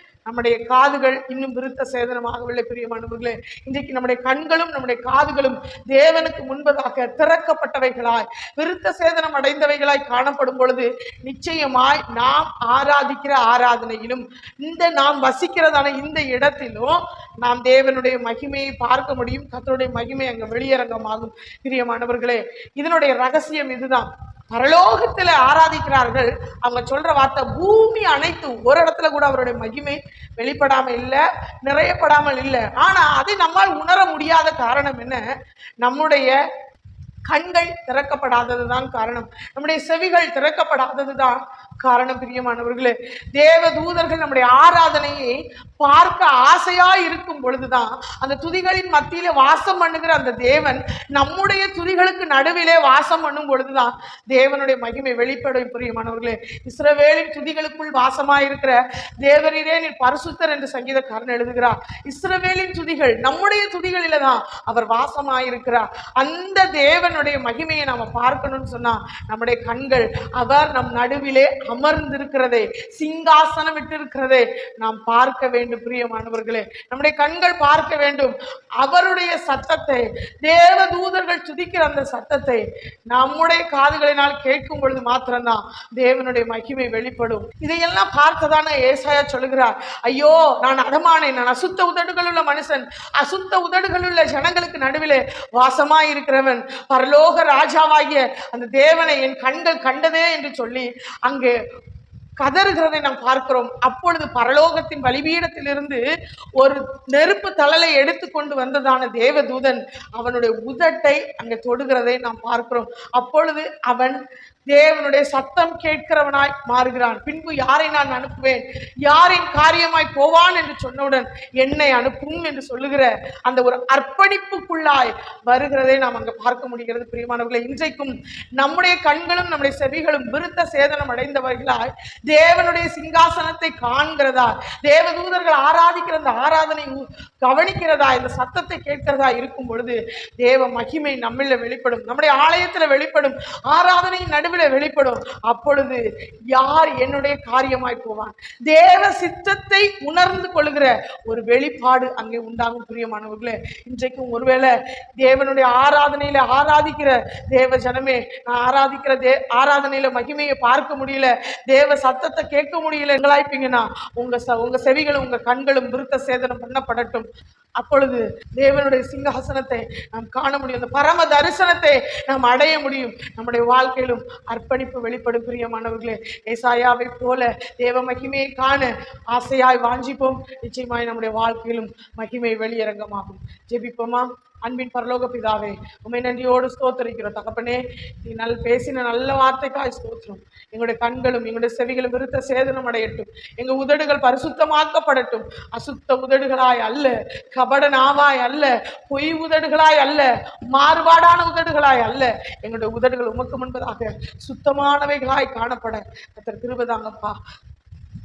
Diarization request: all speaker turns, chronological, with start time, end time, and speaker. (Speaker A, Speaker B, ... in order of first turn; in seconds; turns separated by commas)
Speaker A: 0.3-35.2, Speaker A: 35.8-36.4, Speaker A: 37.3-101.5, Speaker A: 102.4-106.0, Speaker A: 106.6-207.4